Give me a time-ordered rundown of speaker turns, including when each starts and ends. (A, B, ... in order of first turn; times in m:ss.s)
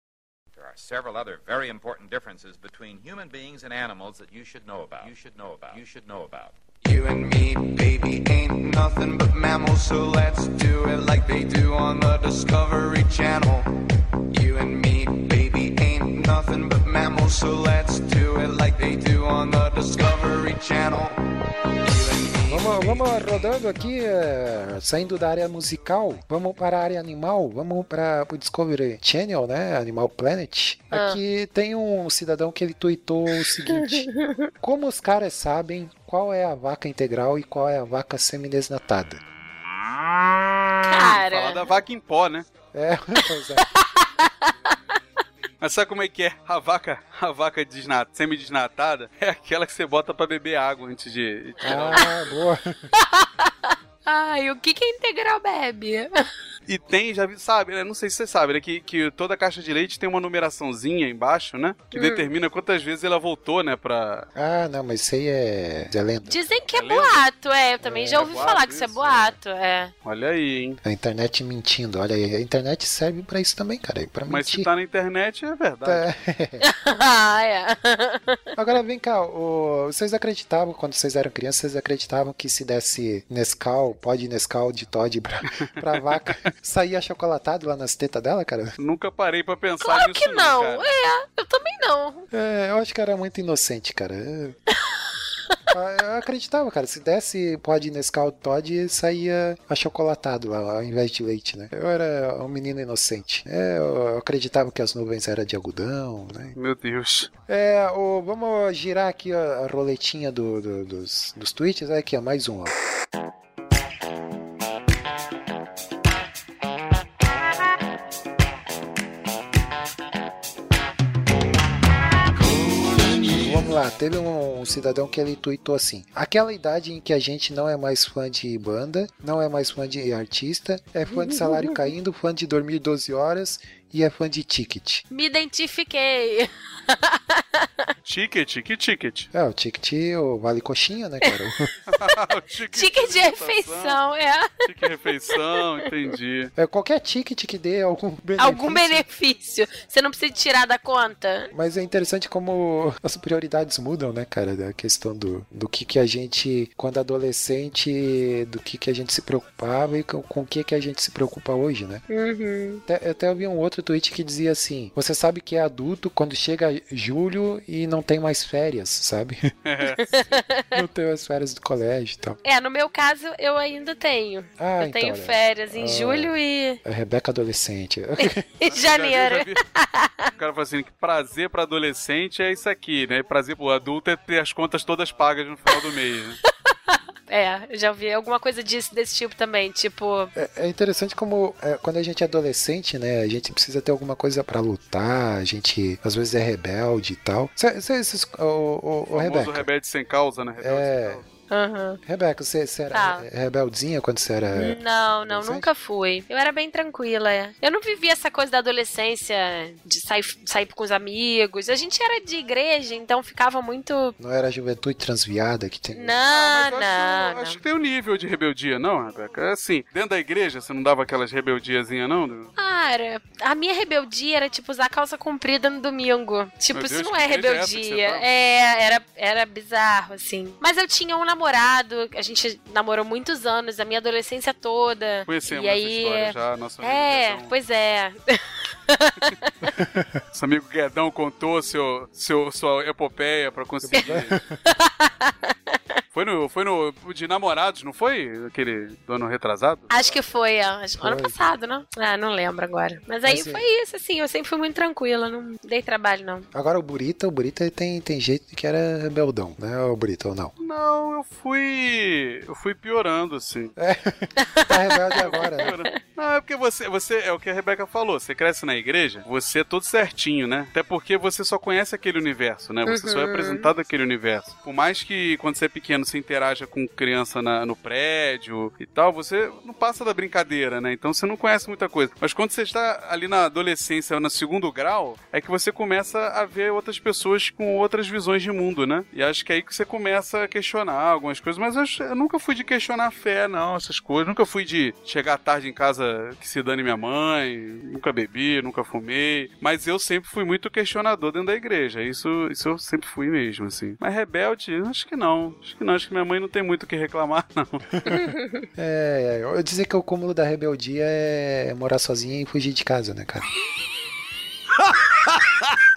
0:00.5-0:06.6 A
0:06.8-0:13.7 B
0:14.3-0:21.2 B
0:21.8-0:23.3 B
0:22.5-0:34.1 C
0:30.9-0:31.2 D
0:33.7-0:34.5 D
0:34.6-0:39.2 C
0:40.8-0:41.7 D
0:41.0-0:42.4 E
0:42.7-0:43.6 C
0:43.7-0:44.8 D
0:45.6-0:52.4 E
0:51.6-0:52.9 C
0:52.9-0:56.2 D
0:56.7-1:04.3 E
1:01.9-1:02.3 D
1:04.3-1:06.5 C
1:06.3-1:09.9 D
1:06.7-1:07.2 E
1:07.8-1:08.6 C
1:08.1-1:09.4 E
1:10.0-1:10.8 E
1:10.8-1:14.7 C
1:14.3-1:16.0 E
1:15.8-1:16.6 C
1:16.6-1:18.4 D
1:18.6-1:28.8 C
1:28.8-1:30.9 E
1:29.8-1:32.2 D
1:32.3-1:34.6 C
1:35.7-1:46.6 C
1:46.5-1:47.3 E
1:47.5-1:52.7 C
2:03.3-2:15.0 C
2:11.1-2:11.8 D
2:15.1-2:17.9 D
2:18.0-2:19.3 E
2:19.3-2:21.7 C
2:21.9-2:24.0 E
2:22.7-2:24.6 D
2:24.6-2:26.5 E
2:26.6-2:29.0 C
2:28.4-2:31.5 D
2:31.5-2:42.0 C
2:42.1-2:42.8 D
2:42.9-2:49.5 C
2:49.6-2:50.4 E
2:50.0-2:50.8 D
2:50.7-2:52.4 C
2:52.4-2:56.8 D
2:54.6-2:58.5 C
2:58.2-3:00.3 D
2:58.7-2:59.6 E
3:00.4-3:06.4 E
3:06.7-3:10.3 D
3:10.3-3:19.7 C
3:19.1-3:21.2 E
3:20.6-3:21.2 C
3:21.5-3:22.0 D
3:22.0-3:25.7 C
3:22.9-3:23.2 D
3:24.5-3:34.1 D
3:34.2-3:36.2 C
3:35.9-3:37.6 D
3:36.3-3:42.5 E
3:42.6-3:59.7 D
3:46.7-3:48.2 E
3:55.3-3:57.5 E
3:59.7-4:00.2 C
4:00.3-4:04.4 E
4:03.8-4:04.6 C
4:04.6-4:06.0 D
4:06.1-4:09.9 E
4:09.9-4:16.5 D
4:11.0-4:11.5 C
4:13.2-4:13.6 C
4:16.5-4:20.5 C
4:20.6-4:23.7 E
4:23.8-4:25.7 C
4:24.4-4:25.7 D
4:25.2-5:07.9 E
4:32.8-4:33.7 D
5:08.0-5:08.6 D
5:08.8-5:13.5 C